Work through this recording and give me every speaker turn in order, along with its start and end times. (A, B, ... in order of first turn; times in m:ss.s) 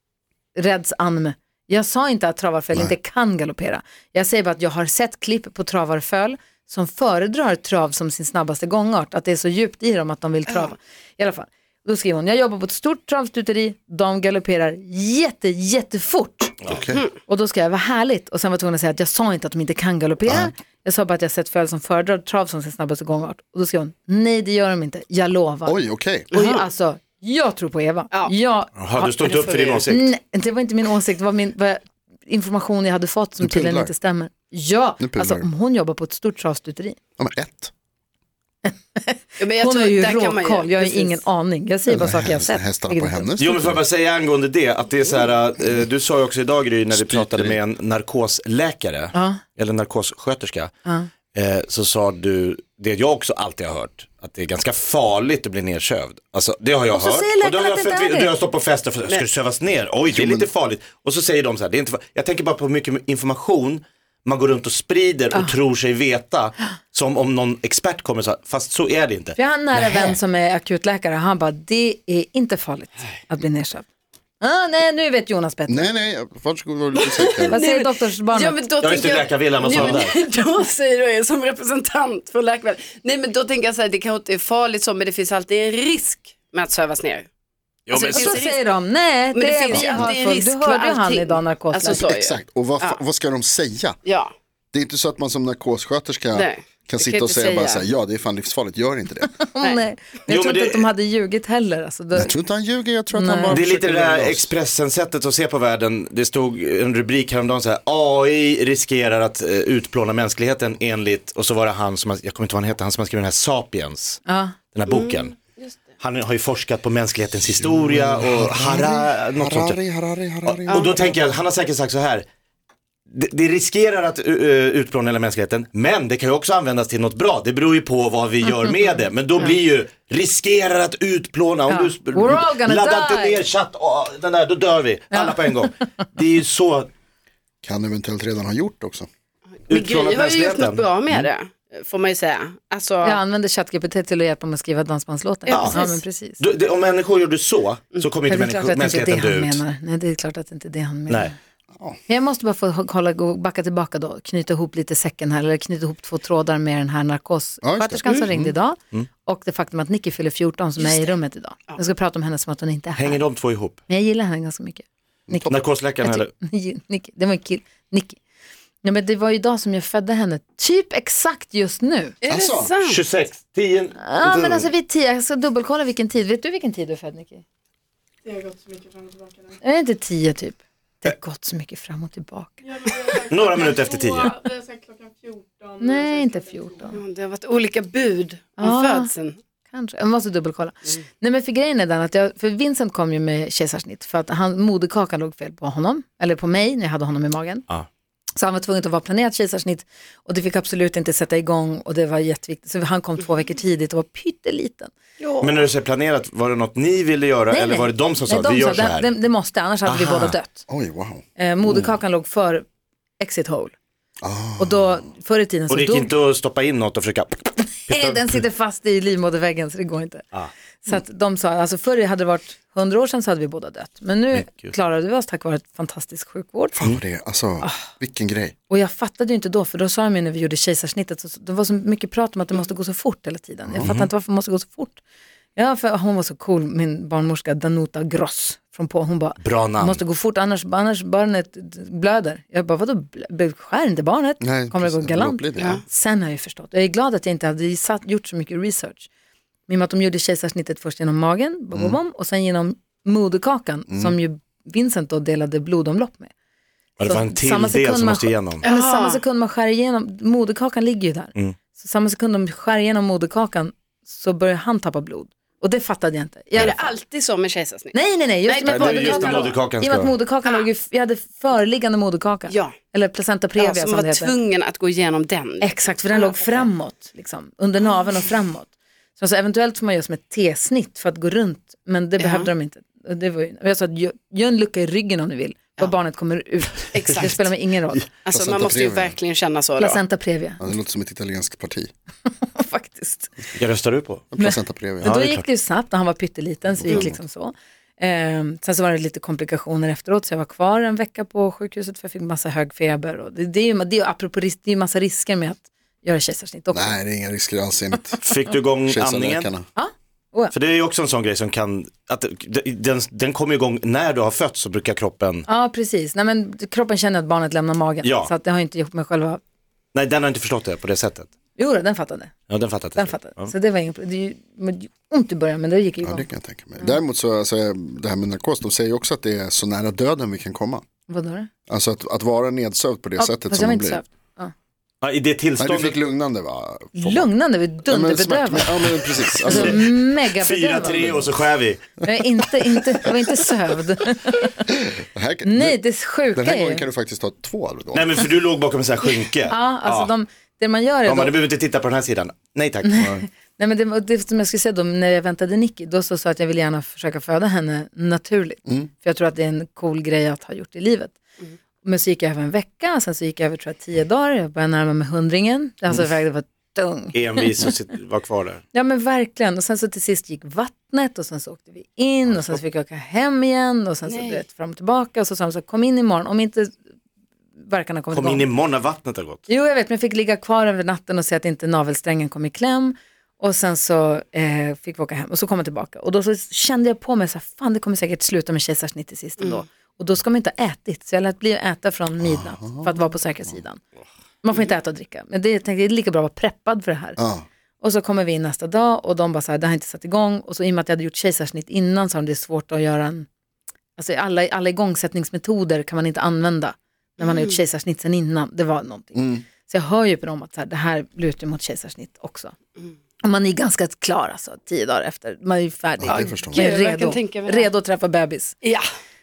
0:00.5-0:16.6 A
0:16.6-0:16.9 B
0:16.7-0:17.0 C
0:17.3-0:37.0 A
0:20.2-0:20.5 C
0:25.6-0:26.3 C
0:26.3-0:26.6 D
0:28.8-0:30.1 B
0:33.4-0:33.9 C
0:35.0-0:35.5 C
0:37.2-0:37.7 C
0:38.6-0:43.4 A
0:39.4-0:41.2 D
0:41.9-0:43.8 C
0:43.4-0:50.7 B
0:46.9-0:47.6 C
0:49.1-0:49.4 A
0:51.3-1:10.2 B
0:56.9-0:58.3 A
1:00.1-1:00.5 C
1:09.4-1:13.9 A
1:14.4-1:15.9 A
1:15.7-1:17.6 C
1:17.0-1:27.3 D
1:17.5-1:18.6 A
1:18.8-1:20.2 B
1:27.9-1:28.4 B
1:27.9-1:32.0 A
1:27.9-1:28.6 D
1:29.3-1:33.0 D
1:29.7-1:30.2 C
1:31.8-1:34.0 C
1:34.0-1:34.3 D
1:34.7-1:39.4 C
1:36.3-1:37.8 D
1:39.3-1:42.4 A
1:40.3-1:40.9 B
1:42.1-1:44.5 C
1:43.1-1:43.6 A
1:43.5-1:54.2 B
1:54.2-1:54.6 A
1:54.7-1:55.4 B
1:54.9-1:55.8 D
1:56.0-1:59.8 B
1:57.6-2:00.9 C
2:00.4-2:02.2 B
2:00.7-2:01.1 D
2:03.1-2:16.9 B
2:11.7-2:13.4 A
2:15.1-2:15.6 A
2:17.6-2:19.1 C
2:19.7-2:21.3 B
2:19.7-2:23.2 D
2:23.0-2:26.4 A
2:25.5-2:25.8 D
2:25.5-2:29.6 B
2:28.3-2:31.3 A
2:32.1-2:43.2 A
2:37.6-2:38.5 C
2:40.8-2:41.2 D
2:43.0-2:43.8 B
2:43.9-2:48.2 A
2:45.3-2:45.5 C
2:45.5-2:46.3 B
2:48.8-2:52.2 A
2:52.2-2:53.0 D
2:52.3-2:52.7 C
2:52.8-2:54.0 B
2:54.0-2:57.4 A
2:54.2-2:54.7 C
2:58.2-2:59.3 D
2:59.6-3:02.9 A
3:02.8-3:05.8 D
3:03.2-3:04.5 B
3:05.8-3:07.0 A
3:06.9-3:09.4 D
3:08.6-3:09.1 A
3:09.7-3:17.6 A
3:18.4-3:24.9 A
3:25.2-3:25.7 D
3:25.4-3:29.1 B
3:27.5-3:30.6 A
3:29.8-3:30.4 B
3:30.7-3:31.9 C
3:31.4-3:32.6 A
3:33.2-3:33.7 A
3:34.2-3:35.0 C
3:34.6-3:36.2 A
3:35.7-3:38.4 B
3:37.9-3:40.3 A
3:40.8-3:46.8 A
3:44.3-3:44.7 B
3:46.7-3:48.5 C
3:47.6-3:47.9 A
3:48.7-3:55.0 A
3:53.6-3:53.9 C
3:53.8-3:54.1 B
3:55.6-4:09.1 A
3:59.4-4:00.0 B
4:04.4-4:05.8 C
4:09.7-4:16.3 A
4:11.7-4:12.0 C
4:13.9-4:14.2 C
4:17.0-4:18.7 B
4:17.0-4:27.0 A
4:18.6-4:19.2 D
4:26.5-4:29.6 D
4:27.9-4:34.4 A
4:28.6-4:30.1 B
4:32.5-4:32.8 D
4:33.6-4:36.6 D
4:35.6-4:48.1 A
4:42.2-4:42.5 D
4:46.9-4:47.5 D
4:48.2-4:50.0 D
4:48.3-4:49.2 C
4:49.8-4:50.6 A
4:50.6-4:51.9 C
4:52.4-4:53.3 A
4:53.6-4:54.3 B
4:54.3-4:55.2 C
4:54.4-5:07.0 A
4:55.0-4:55.4 B
4:56.8-4:57.2 C
5:06.7-5:08.2 C
5:08.2-5:09.5 B
5:08.9-5:09.6 C
5:09.7-5:10.5 A
5:10.5-5:15.4 B
5:15.5-5:19.4 A
5:18.0-5:18.3 B
5:19.9-5:21.3 B
5:21.6-5:22.3 A
5:22.5-5:23.5 B
5:23.0-5:26.3 A
5:26.0-5:30.8 C
5:31.1-5:31.5 A
5:31.7-5:34.0 C
5:33.2-5:34.5 A
5:35.0-5:36.0 B
5:35.6-5:37.3 C
5:37.0-5:41.2 A
5:37.8-5:40.0 C
5:39.4-5:41.8 B
5:40.9-5:41.3 C
5:42.0-5:44.6 A
5:44.7-5:45.8 C
5:45.4-5:46.8 A
5:46.3-5:48.2 C
5:47.9-5:50.1 B
5:49.5-5:51.3 A
5:51.0-5:53.2 B
5:52.8-6:01.2 A
6:01.8-6:07.7 A
6:07.1-6:08.6 B
6:08.7-6:16.7 A
6:14.1-6:14.4 D
6:17.6-6:18.5 A
6:18.1-6:19.5 B
6:19.5-6:33.8 A
6:32.2-6:33.6 C
6:34.4-6:37.2 A
6:37.2-6:37.4 C
6:37.8-6:43.3 A
6:44.0-6:52.5 A
6:47.2-6:47.5 D
6:49.1-6:49.4 C
6:53.2-6:58.6 A
6:56.0-6:56.7 C
6:56.1-6:57.7 D